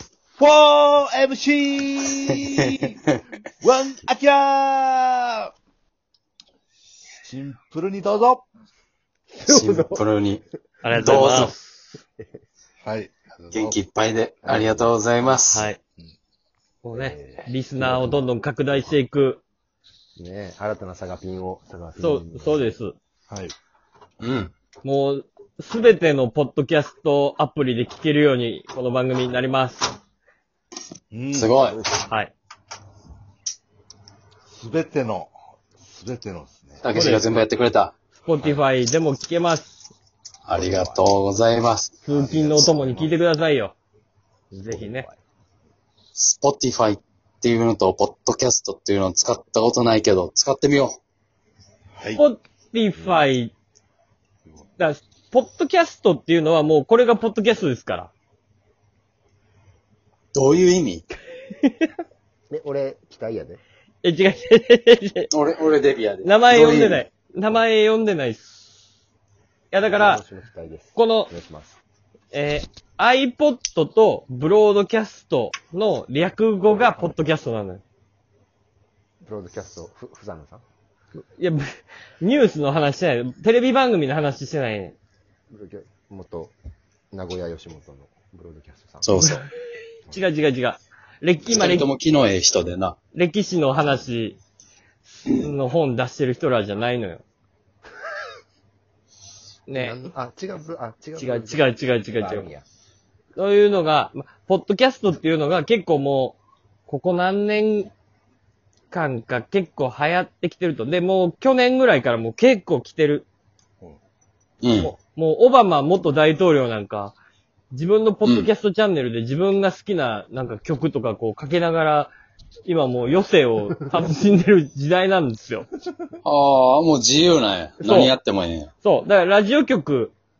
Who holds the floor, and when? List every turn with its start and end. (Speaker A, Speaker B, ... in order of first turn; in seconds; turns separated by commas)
Speaker A: 0.4-3.0, Speaker A: 3.6-5.5, Speaker A: 7.2-8.4, Speaker B: 9.3-10.0, Speaker C: 9.4-10.4, Speaker D: 10.8-11.9, Speaker C: 11.0-11.5, Speaker B: 11.0-11.5, Speaker A: 12.8-13.8, Speaker C: 13.5-15.7, Speaker B: 14.4-14.9, Speaker D: 15.5-15.8, Speaker D: 16.8-19.4, Speaker A: 17.1-17.4, Speaker B: 17.8-18.9, Speaker B: 20.2-22.7, Speaker D: 22.0-22.9, Speaker A: 23.3-23.5, Speaker C: 24.2-24.5, Speaker D: 24.8-29.9, Speaker A: 31.1-31.6, Speaker C: 31.3-31.8, Speaker B: 31.6-32.0, Speaker D: 32.0-32.3, Speaker A: 34.5-37.1, Speaker C: 36.8-37.9, Speaker D: 36.9-37.3, Speaker D: 38.2-39.8, Speaker C: 40.5-42.0, Speaker B: 40.5-41.1, Speaker D: 42.0-43.7, Speaker A: 42.1-43.2, Speaker D: 44.5-45.0, Speaker B: 44.7-45.2, Speaker C: 46.1-51.0, Speaker A: 52.0-52.2, Speaker D: 52.1-53.5, Speaker D: 54.8-58.1, Speaker C: 60.3-61.0, Speaker D: 61.5-61.9, Speaker B: 62.5-63.6, Speaker D: 64.0-65.3, Speaker C: 65.3-67.0, Speaker D: 66.2-68.6, Speaker D: 69.7-70.2, Speaker B: 69.8-71.8, Speaker D: 71.0-71.3, Speaker D: 72.3-77.8, Speaker B: 76.8-77.1, Speaker B: 79.2-80.6, Speaker D: 81.2-85.0, Speaker B: 85.5-86.5, Speaker B: 87.1-89.2, Speaker C: 89.0-89.5, Speaker D: 90.1-91.9, Speaker C: 91.5-93.0, Speaker D: 93.1-94.4, Speaker D: 95.3-97.2, Speaker D: 99.7-100.0, Speaker B: 99.7-102.6, Speaker D: 101.2-102.5, Speaker D: 103.3-107.9, Speaker D: 108.9-113.3, Speaker C: 114.6-114.9, Speaker D: 114.8-117.2, Speaker D: 117.7-122.1, Speaker C: 118.2-118.5, Speaker D: 122.6-125.7, Speaker C: 126.2-128.7, Speaker D: 127.8-128.1, Speaker D: 128.8-130.1